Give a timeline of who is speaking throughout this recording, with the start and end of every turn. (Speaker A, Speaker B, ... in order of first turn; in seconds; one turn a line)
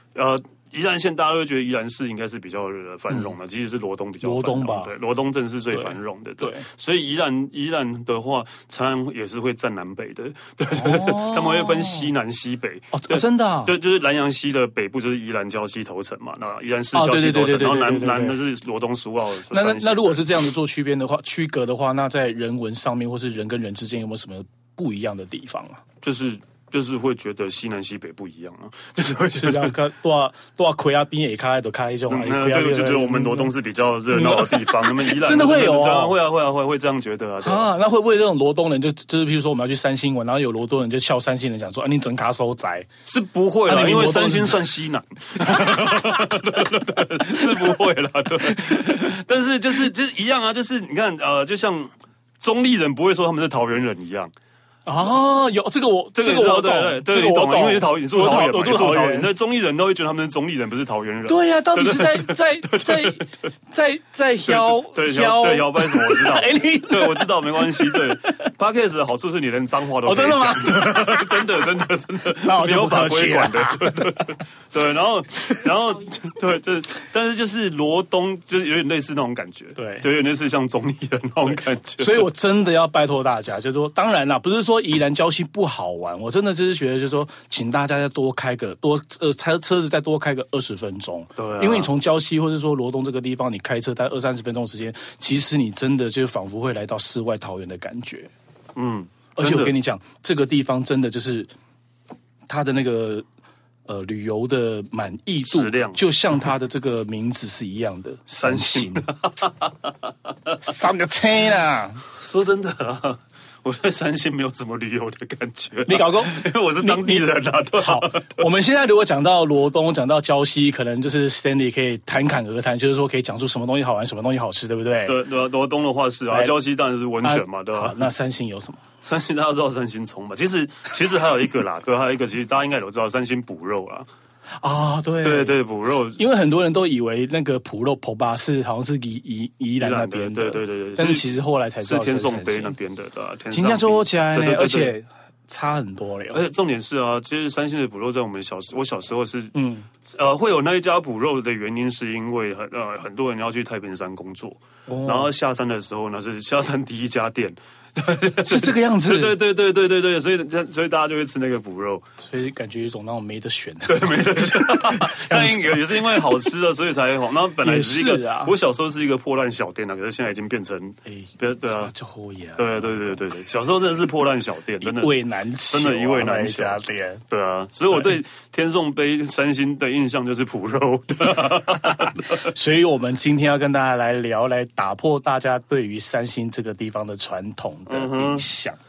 Speaker A: 0.1-20.4
Speaker B: 4.2-4.9
Speaker B: 5.7-6.7
Speaker B: 10.7-12.1
Speaker B: 12.9-13.8
Speaker B: 16.9-18.4
Speaker B: 19.5-25.8
Speaker A: 26.0-29.8
Speaker B: 29.3-33.5
Speaker A: 32.1-37.7
Speaker B: 34.1-36.2
Speaker B: 37.4-42.9
Speaker A: 43.0-54.3
Speaker B: 43.7-44.7
Speaker B: 45.4-46.6
Speaker B: 47.2-47.8
Speaker B: 48.5-49.1
Speaker B: 54.9-59.3
Speaker A: 56.2-63.3
Speaker B: 61.3-68.5
Speaker A: 64.5-82.3
Speaker B: 70.0-71.7
Speaker B: 72.2-74.4
Speaker B: 79.8-80.1
Speaker B: 82.0-98.3
Speaker A: 91.4-91.9
Speaker A: 98.8-99.8
Speaker B: 99.4-101.5
Speaker B: 102.5-103.3
Speaker B: 103.9-109.1
Speaker A: 105.5-106.0
Speaker A: 108.4-110.5
Speaker B: 110.6-112.1
Speaker A: 112.1-118.5
Speaker B: 115.9-117.2
Speaker B: 117.8-125.2
Speaker A: 125.1-128.1
Speaker B: 126.3-126.6
Speaker B: 127.2-128.8
Speaker A: 129.0-134.1
Speaker B: 134.6-135.6
Speaker A: 135.2-136.2
Speaker B: 136.2-142.8
Speaker A: 139.8-141.3
Speaker A: 141.8-144.9
Speaker B: 143.5-146.4
Speaker A: 146.3-149.5
Speaker B: 149.5-149.9
Speaker A: 150.1-162.1
Speaker B: 154.9-155.3
Speaker B: 158.4-159.4
Speaker B: 162.2-166.4
Speaker A: 163.9-171.9
Speaker B: 167.6-168.5
Speaker B: 171.1-173.2
Speaker A: 172.6-182.4
Speaker B: 174.8-177.2
Speaker B: 181.5-188.8
Speaker A: 187.9-188.4